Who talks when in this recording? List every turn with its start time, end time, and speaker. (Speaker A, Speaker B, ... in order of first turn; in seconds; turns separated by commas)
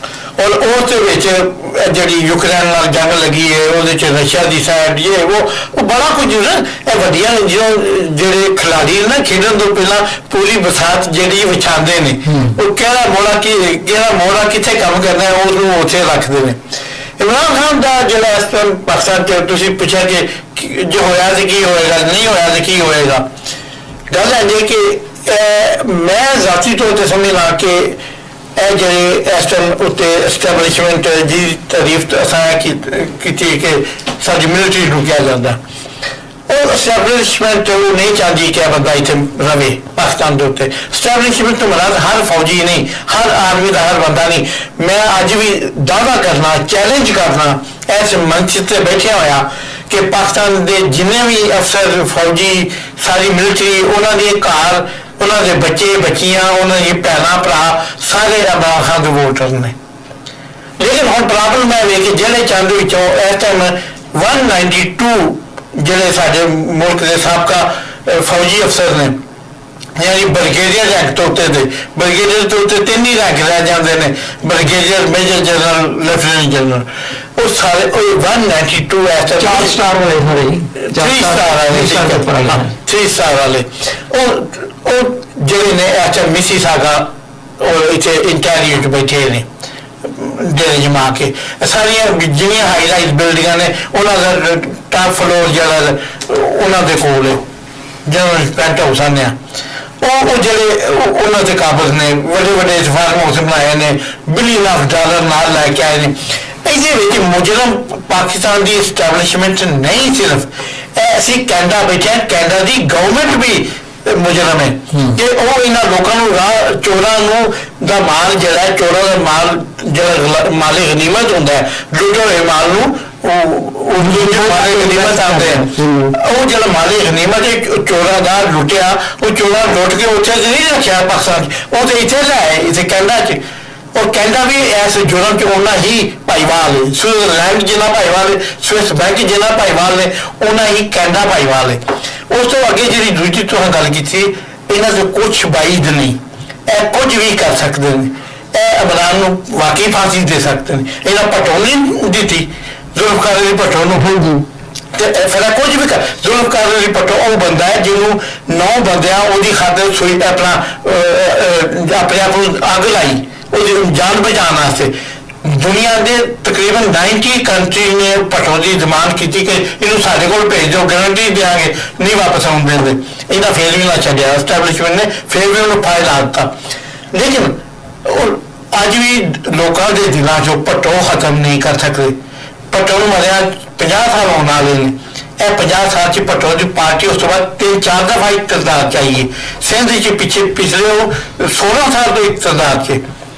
Speaker A: 0.4-16.6, Speaker B: 12.3-12.6, Speaker A: 17.2-23.3, Speaker A: 24.1-28.0, Speaker A: 28.6-35.6, Speaker A: 36.5-59.8, Speaker A: 60.8-69.2, Speaker A: 70.0-79.8, Speaker B: 79.4-82.8, Speaker A: 80.8-89.5, Speaker A: 90.0-97.4, Speaker A: 98.0-99.4, Speaker A: 100.0-133.4, Speaker B: 114.9-115.2, Speaker C: 124.0-126.2, Speaker A: 133.9-154.1, Speaker C: 153.9-154.5, Speaker A: 154.9-164.9, Speaker A: 165.4-176.5, Speaker A: 177.1-182.2, Speaker A: 182.7-193.0